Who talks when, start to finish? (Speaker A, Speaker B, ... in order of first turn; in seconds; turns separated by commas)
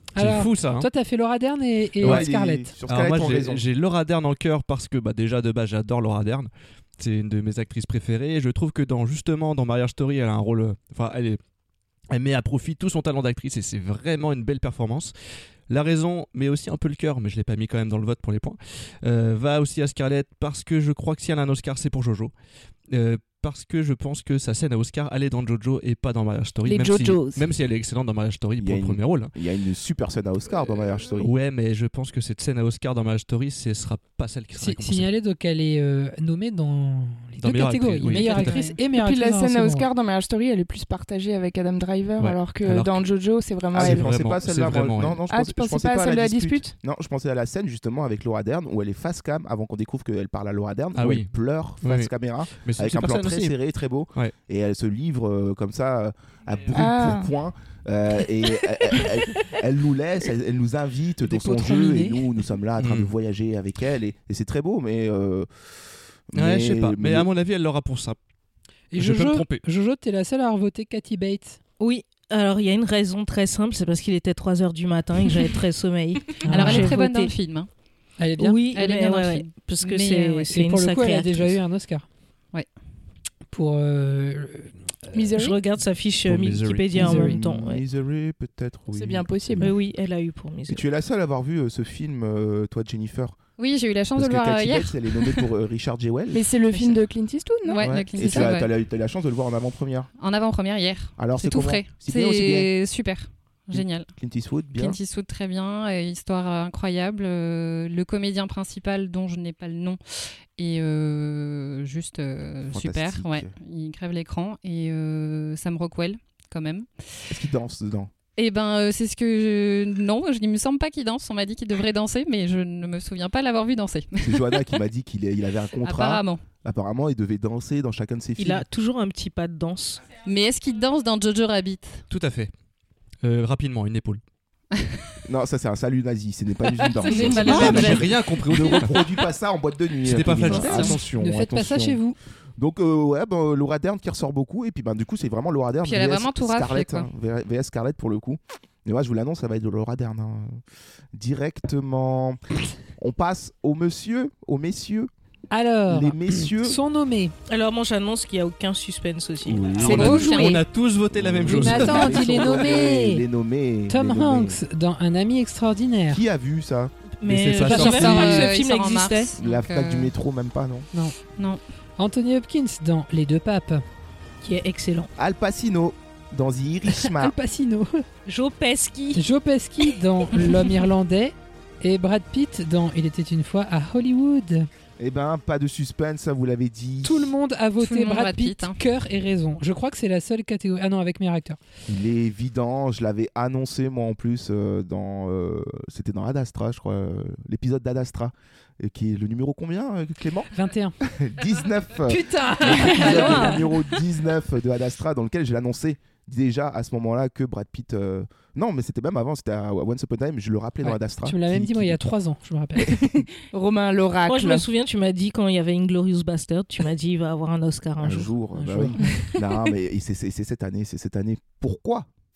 Speaker A: 0.1-0.9, Speaker B: 0.1-2.7, Speaker A: 2.0-2.3, Speaker C: 2.0-3.6, Speaker A: 2.9-11.4, Speaker A: 12.1-15.1, Speaker A: 15.7-22.3, Speaker A: 22.9-29.3, Speaker D: 26.6-27.5, Speaker C: 28.6-31.3, Speaker A: 31.2-35.1, Speaker B: 34.6-39.9, Speaker A: 37.4-38.6, Speaker E: 38.1-38.8, Speaker D: 38.9-44.1, Speaker A: 42.2-43.0, Speaker C: 43.7-65.5, Speaker A: 43.7-45.2, Speaker D: 45.3-46.7, Speaker A: 50.9-51.3, Speaker A: 51.8-52.1, Speaker A: 52.6-53.5, Speaker D: 56.7-57.3, Speaker B: 61.2-62.3, Speaker A: 62.8-63.1, Speaker C: 66.3-67.3, Speaker A: 66.3-68.2, Speaker B: 68.9-71.6, Speaker A: 69.0-69.6, Speaker E: 71.8-77.3, Speaker B: 76.4-77.0, Speaker F: 76.5-77.7, Speaker B: 78.2-78.6, Speaker E: 78.4-81.6, Speaker F: 78.7-80.5, Speaker B: 80.5-82.1, Speaker B: 83.5-85.3, Speaker D: 85.1-85.6, Speaker E: 85.3-87.8, Speaker A: 86.2-87.3, Speaker C: 86.9-89.7, Speaker B: 87.0-87.3, Speaker D: 88.9-89.7, Speaker E: 89.6-90.8, Speaker C: 90.7-93.4, Speaker F: 93.6-95.5, Speaker C: 94.2-97.0, Speaker D: 96.3-98.6, Speaker F: 97.6-98.7, Speaker C: 97.8-100.1, Speaker F: 100.2-104.1, Speaker C: 101.2-102.7, Speaker C: 103.7-105.0, Speaker F: 104.7-110.0, Speaker F: 110.5-116.9, Speaker C: 112.7-113.5, Speaker C: 117.3-118.1, Speaker F: 118.4-124.8, Speaker C: 124.2-128.6, Speaker F: 125.8-126.4, Speaker E: 128.4-130.0, Speaker F: 130.2-132.1, Speaker A: 132.1-132.5, Speaker A: 133.2-134.2, Speaker F: 134.7-135.0, Speaker C: 135.2-142.0, Speaker F: 136.8-138.4, Speaker A: 137.1-139.1, Speaker A: 140.0-141.0, Speaker F: 140.4-140.9, Speaker B: 141.1-142.2, Speaker C: 142.6-150.6, Speaker F: 145.8-147.1, Speaker C: 151.1-152.4, Speaker C: 153.0-155.1, Speaker B: 155.5-157.3, Speaker C: 155.9-156.8, Speaker E: 157.5-160.6, Speaker C: 159.4-160.3, Speaker A: 159.7-162.3, Speaker F: 159.8-160.6, Speaker C: 161.1-164.6, Speaker B: 161.5-163.2, Speaker B: 163.9-166.2, Speaker C: 166.1-166.9, Speaker E: 167.2-169.3, Speaker A: 167.2-168.5, Speaker B: 167.6-168.0, Speaker F: 167.8-170.1, Speaker C: 169.4-170.9, Speaker B: 172.0-173.8, Speaker E: 174.4-175.1, Speaker C: 175.2-177.3, Speaker B: 176.9-178.0, Speaker E: 178.2-179.2, Speaker B: 179.1-184.7, Speaker C: 185.0-187.3, Speaker B: 187.0-191.6, Speaker F: 187.8-188.8, Speaker C: 191.9-212.0, Speaker B: 200.5-201.0, Speaker B: 202.1-203.7, Speaker B: 210.8-213.0, Speaker C: 212.8-213.2, Speaker D: 213.5-214.7, Speaker E: 214.2-218.3, Speaker C: 218.0-222.1, Speaker B: 218.5-219.2